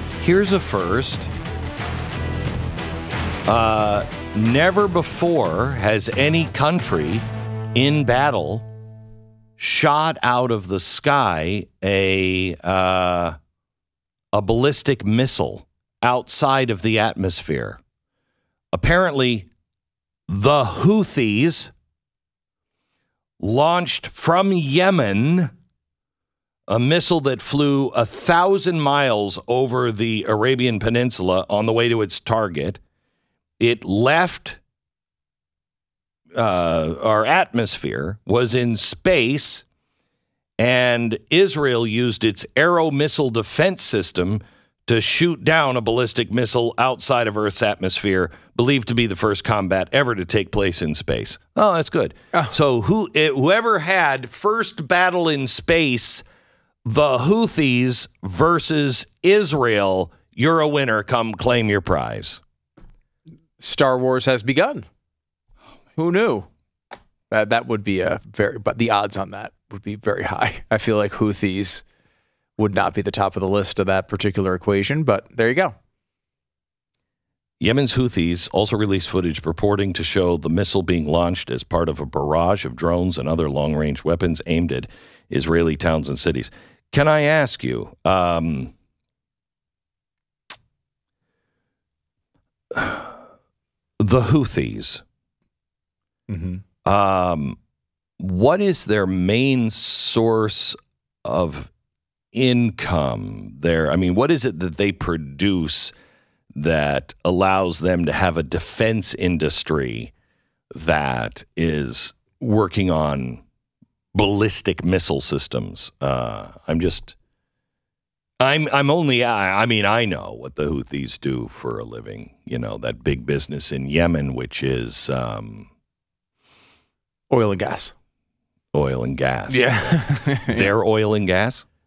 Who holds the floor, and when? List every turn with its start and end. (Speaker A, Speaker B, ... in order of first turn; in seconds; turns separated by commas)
Speaker A: 0.2-1.3, Speaker A: 3.5-7.2, Speaker A: 7.7-8.7, Speaker A: 9.6-13.4, Speaker A: 14.3-17.8, Speaker A: 18.7-19.5, Speaker A: 20.3-21.7, Speaker A: 23.4-25.5, Speaker A: 26.7-32.8, Speaker A: 33.6-34.6, Speaker A: 36.4-39.6, Speaker A: 40.6-56.2, Speaker A: 56.8-62.4, Speaker B: 63.6-64.8, Speaker B: 66.0-66.5, Speaker B: 67.3-71.8, Speaker B: 72.6-75.7, Speaker A: 77.6-88.7, Speaker A: 92.7-93.2, Speaker A: 94.0-95.0, Speaker B: 96.3-96.6, Speaker A: 96.8-97.6, Speaker A: 98.2-101.7, Speaker A: 102.3-105.9, Speaker A: 106.5-110.1, Speaker A: 110.7-113.4, Speaker A: 114.1-117.2, Speaker A: 118.4-125.7, Speaker B: 127.3-127.9, Speaker A: 128.7-131.6, Speaker B: 129.5-130.7